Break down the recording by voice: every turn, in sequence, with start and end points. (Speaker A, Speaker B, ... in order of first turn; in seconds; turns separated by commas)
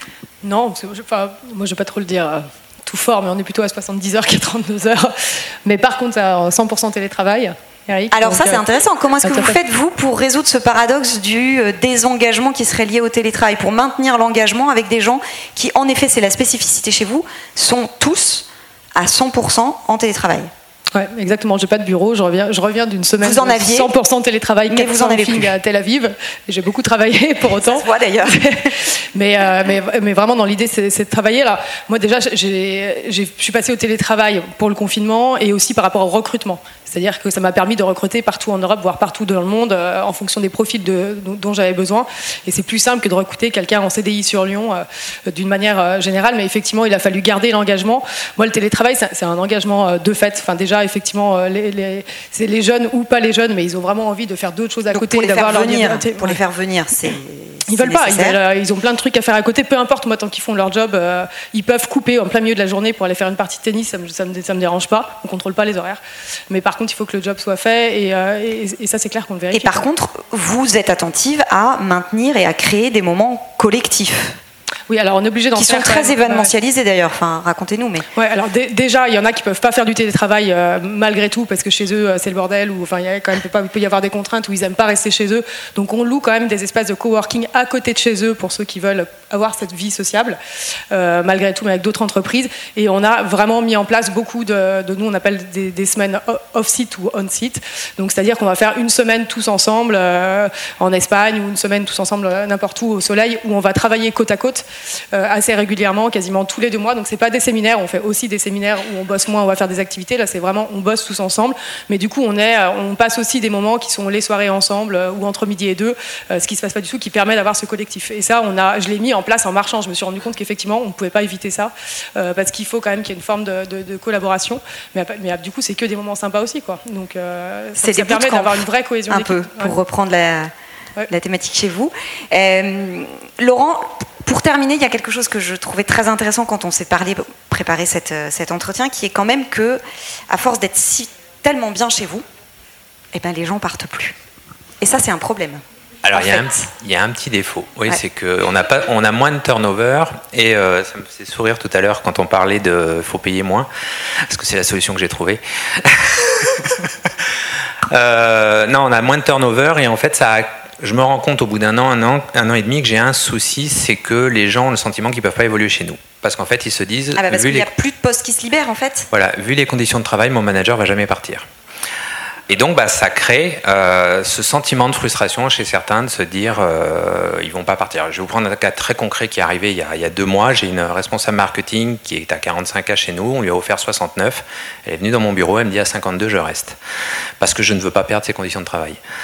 Speaker A: 0.4-8.7, Speaker B: 8.1-20.5, Speaker A: 9.2-9.6, Speaker A: 20.9-56.4, Speaker B: 23.2-23.9, Speaker B: 24.7-25.5, Speaker B: 27.6-28.7, Speaker B: 54.9-58.4, Speaker A: 57.7-69.8, Speaker B: 69.5-74.4, Speaker A: 74.9-76.5, Speaker B: 75.5-78.0, Speaker A: 78.1-90.4, Speaker A: 90.9-129.7, Speaker B: 127.8-130.5, Speaker B: 131.1-142.2, Speaker B: 143.1-144.1, Speaker B: 144.8-145.6, Speaker C: 146.0-153.7, Speaker B: 146.1-146.7, Speaker C: 154.3-156.8, Speaker C: 157.9-167.7, Speaker B: 167.2-169.1, Speaker C: 169.1-171.4, Speaker C: 172.5-186.8, Speaker C: 187.4-189.0